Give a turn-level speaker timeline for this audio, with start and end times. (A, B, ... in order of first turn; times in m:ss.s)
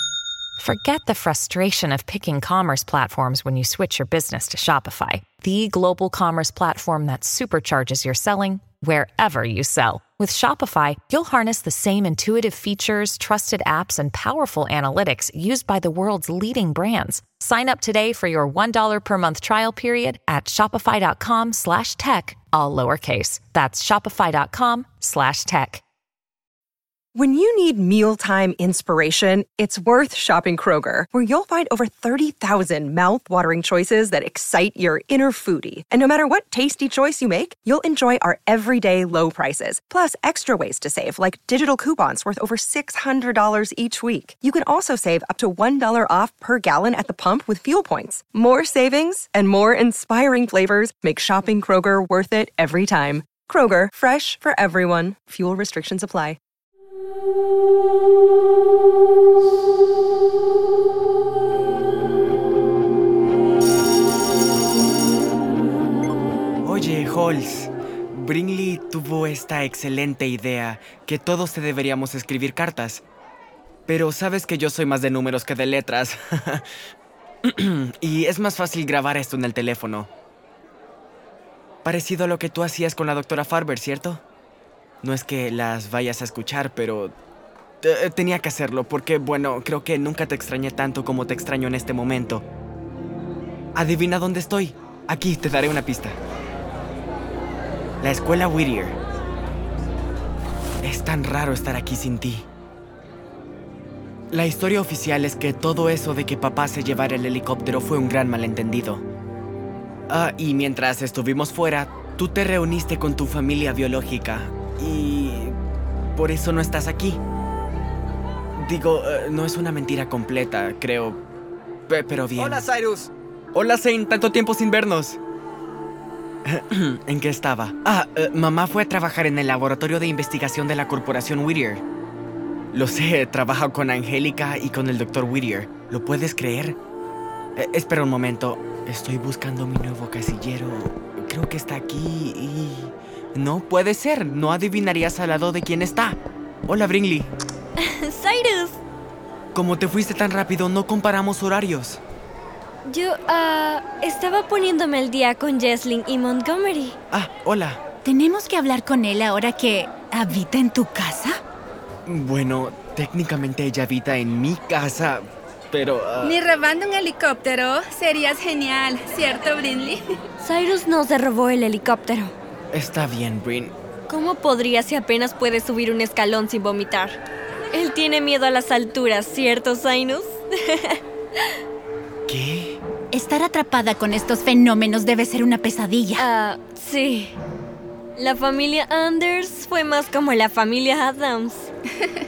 0:00.6-0:25.8 A
0:27.2-0:56.4 B
1:06.6-1:13.0 C
1:13.9-1:16.7 C
1:17.4-1:20.1 C
1:21.8-1:24.2 C
1:25.0-1:27.2 C
1:27.8-1:32.4 C
1:33.8-1:36.2 C
1:38.0-1:39.0 C
1:40.8-1:42.5 C
1:44.3-1:49.0 C
1:50.1-1:55.6 C
1:56.2-1:57.2 C
1:58.6-2:01.2 C
2:01.9-2:02.8 C
2:03.5-2:05.2 C
2:06.4-2:11.8 C
2:12.7-2:16.8 C
2:17.6-2:27.3 C
2:27.8-2:28.8 D
2:29.5-2:32.0 C
2:32.8-2:37.0 D
2:37.1-2:37.8 C
2:38.0-2:41.4 E
2:42.1-2:46.4 C
2:46.2-2:50.0 F
2:50.4-2:52.3 D
2:52.7-2:53.8 C
2:54.1-2:57.2 D
2:57.7-3:01.0 D
3:02.3-3:02.8 C
3:03.1-3:06.2 E
3:06.2-3:07.4 D
3:08.2-3:11.7 D